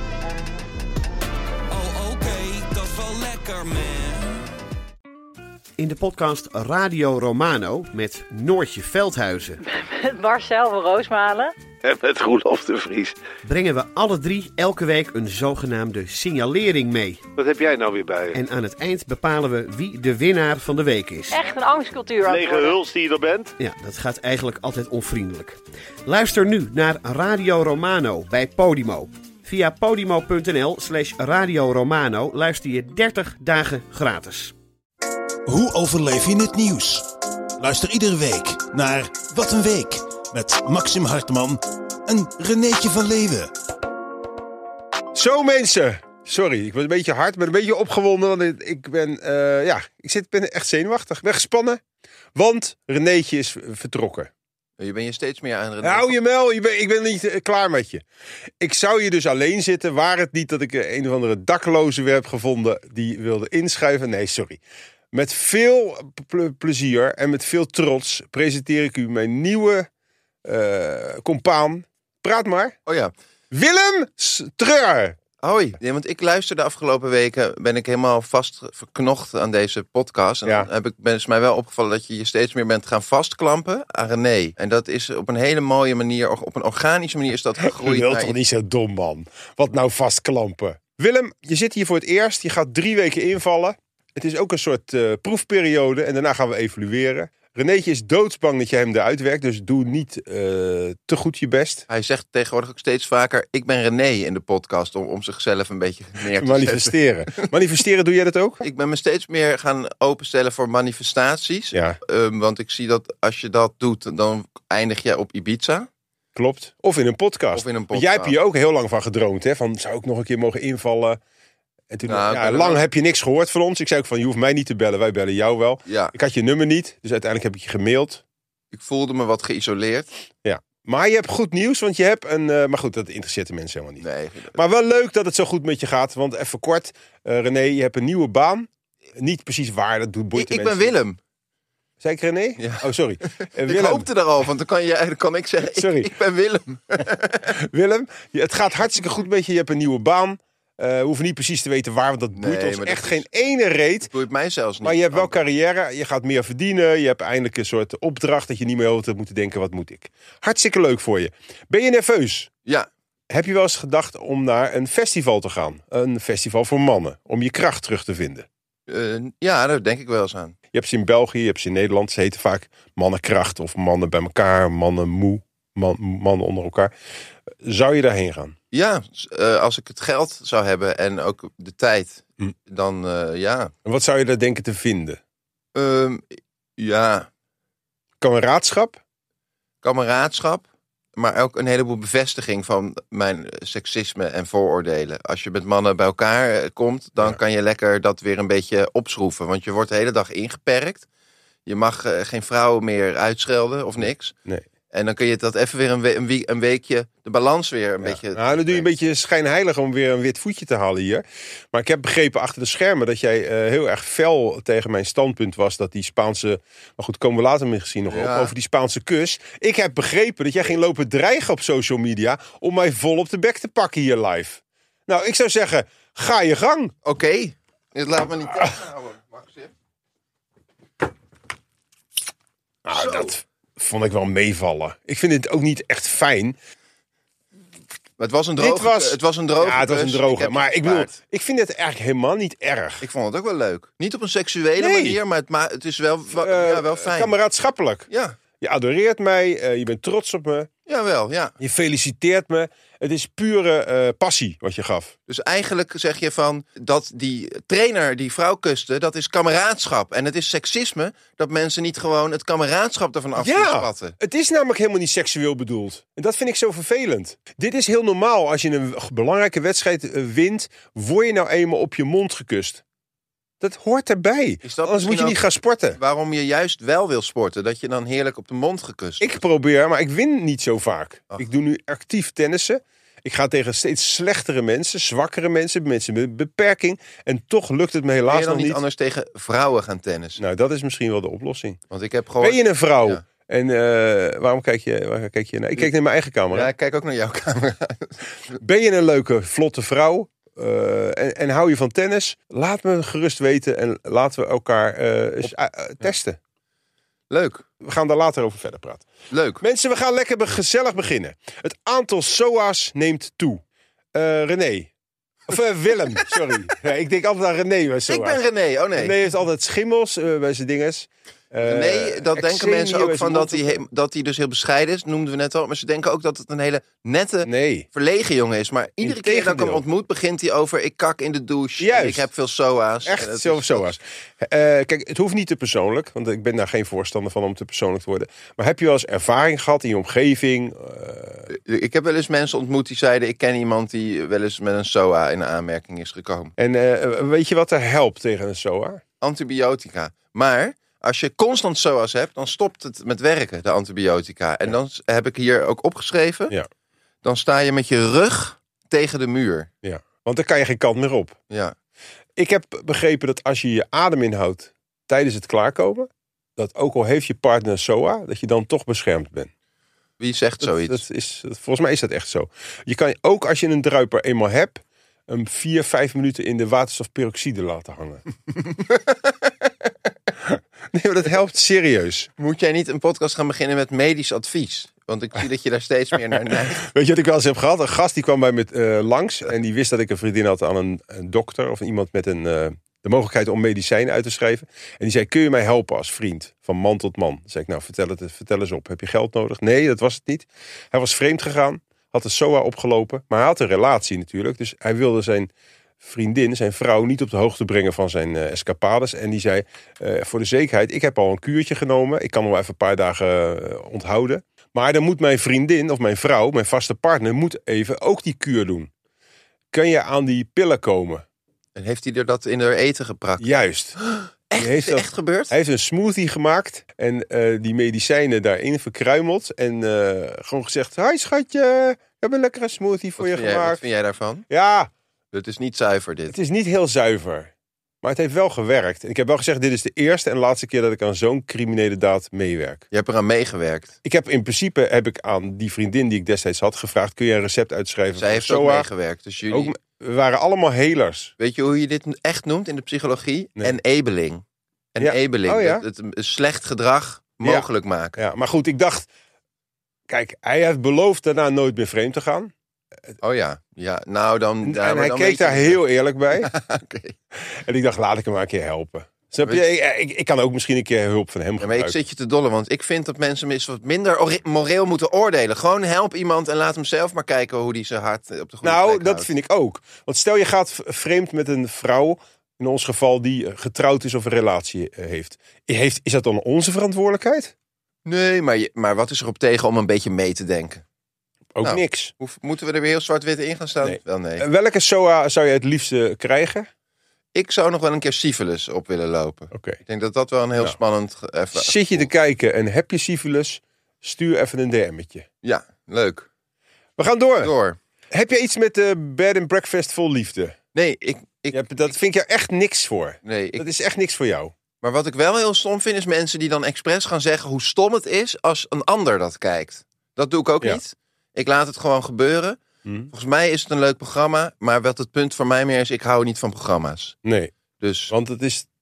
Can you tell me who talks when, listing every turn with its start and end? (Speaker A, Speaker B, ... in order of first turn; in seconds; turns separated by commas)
Speaker A: 1.7-4.5, Speaker B: 5.8-9.6, Speaker C: 9.6-11.5, Speaker D: 11.8-13.2, Speaker B: 13.4-17.3, Speaker D: 17.4-18.4, Speaker B: 18.3-21.4, Speaker C: 21.3-22.9, Speaker D: 22.2-23.5, Speaker B: 23.6-34.5, Speaker E: 35.5-43.5, Speaker F: 45.1-51.8, Speaker F: 52.3-54.3, Speaker G: 54.8-56.1, Speaker F: 55.8-58.0, Speaker F: 58.6-64.6, Speaker F: 65.1-69.9, Speaker F: 70.4-72.8, Speaker G: 72.8-73.1, Speaker F: 73.5-75.2, Speaker G: 75.4-88.3, Speaker F: 87.6-101.8, Speaker G: 101.9-107.5, Speaker F: 106.3-108.6, Speaker G: 108.6-115.9, Speaker F: 111.7-112.0, Speaker F: 116.3-121.2, Speaker G: 117.5-118.3, Speaker F: 121.9-128.2, Speaker G: 122.0-122.8, Speaker G: 125.8-126.1, Speaker G: 128.7-130.1, Speaker F: 130.4-140.9, Speaker G: 134.0-134.6, Speaker G: 140.3-141.2, Speaker F: 142.0-144.1, Speaker G: 142.6-147.5, Speaker F: 145.7-146.1, Speaker F: 147.5-154.1, Speaker G: 152.3-153.2, Speaker G: 154.1-155.4, Speaker F: 154.8-162.5, Speaker F: 163.3-168.5, Speaker G: 168.9-170.5, Speaker F: 170.7-176.9, Speaker F: 177.6-178.5, Speaker G: 178.7-183.7, Speaker F: 183.8-185.2, Speaker G: 185.7-186.2, Speaker G: 186.8-187.3, Speaker F: 188.2-189.0, Speaker G: 189.8-190.6, Speaker G: 191.2-201.1, Speaker G: 201.7-204.3, Speaker G: 204.9-208.9, Speaker F: 208.0-226.9, Speaker G: 218.1-218.5, Speaker G: 227.0-229.7, Speaker F: 232.8-236.6, Speaker G: 232.9-233.3, Speaker G: 238.2-241.2, Speaker F: 238.6-243.1, Speaker G: 243.0-247.3, Speaker F: 244.8-245.2, Speaker F: 246.3-248.1, Speaker G: 248.1-248.4, Speaker F: 248.6-250.7, Speaker G: 250.8-251.5, Speaker F: 251.6-255.1, Speaker G: 255.3-264.1, Speaker F: 263.4-272.8, Speaker F: 273.6-276.0, Speaker G: 274.6-275.4, Speaker G: 275.9-279.3, Speaker F: 279.2-288.8, Speaker G: 288.3-290.4, Speaker F: 290.4-291.8, Speaker G: 291.9-293.2, Speaker F: 292.4-296.7, Speaker G: 296.5-298.5, Speaker F: 298.6-306.4, Speaker G: 307.3-307.6, Speaker F: 307.8-309.1, Speaker G: 309.3-309.6, Speaker F: 309.6-313.6, Speaker F: 314.1-314.9, Speaker F: 315.5-318.4, Speaker G: 318.1-319.2, Speaker F: 318.9-323.8, Speaker G: 321.6-333.9, Speaker F: 327.4-327.9, Speaker F: 329.0-329.8, Speaker F: 331.8-332.3, Speaker F: 333.0-341.5, Speaker G: 341.5-346.5, Speaker F: 346.6-349.0, Speaker G: 349.2-356.5, Speaker G: 357.2-359.7, Speaker F: 359.8-361.4, Speaker G: 361.5-361.7, Speaker F: 362.4-369.5, Speaker G: 370.2-371.0, Speaker F: 370.6-378.2, Speaker F: 380.4-382.3, Speaker G: 382.4-386.9, Speaker F: 386.5-405.5, Speaker F: 406.0-418.9, Speaker F: 419.7-421.2, Speaker G: 421.7-423.5, Speaker F: 423.4-424.0, Speaker G: 424.0-425.5, Speaker F: 424.6-433.8, Speaker G: 433.2-434.4, Speaker F: 434.5-434.9, Speaker G: 435.3-436.4, Speaker F: 436.3-442.8, Speaker G: 442.9-443.9, Speaker F: 444.0-448.9, Speaker G: 448.1-449.7, Speaker F: 449.5-451.3, Speaker G: 451.4-454.4, Speaker G: 454.9-458.2, Speaker F: 455.0-455.8, Speaker F: 457.4-459.1, Speaker F: 460.1-462.5, Speaker G: 463.2-467.1, Speaker F: 464.6-466.5, Speaker F: 467.4-472.0, Speaker G: 471.6-479.3, Speaker F: 478.6-487.5, Speaker G: 488.0-490.8, Speaker F: 491.5-492.1, Speaker G: 491.6-494.4, Speaker F: 493.8-496.7, Speaker G: 497.3-502.1, Speaker F: 499.5-499.8, Speaker F: 501.5-505.2, Speaker G: 505.4-506.3, Speaker F: 507.0-507.5, Speaker G: 507.4-507.8, Speaker F: 508.1-510.6, Speaker G: 510.7-511.6, Speaker F: 511.5-514.5, Speaker G: 513.2-513.7, Speaker G: 514.8-522.6, Speaker F: 522.8-523.1, Speaker G: 523.1-527.1, Speaker F: 527.2-527.5, Speaker G: 527.8-528.1, Speaker F: 528.1-528.6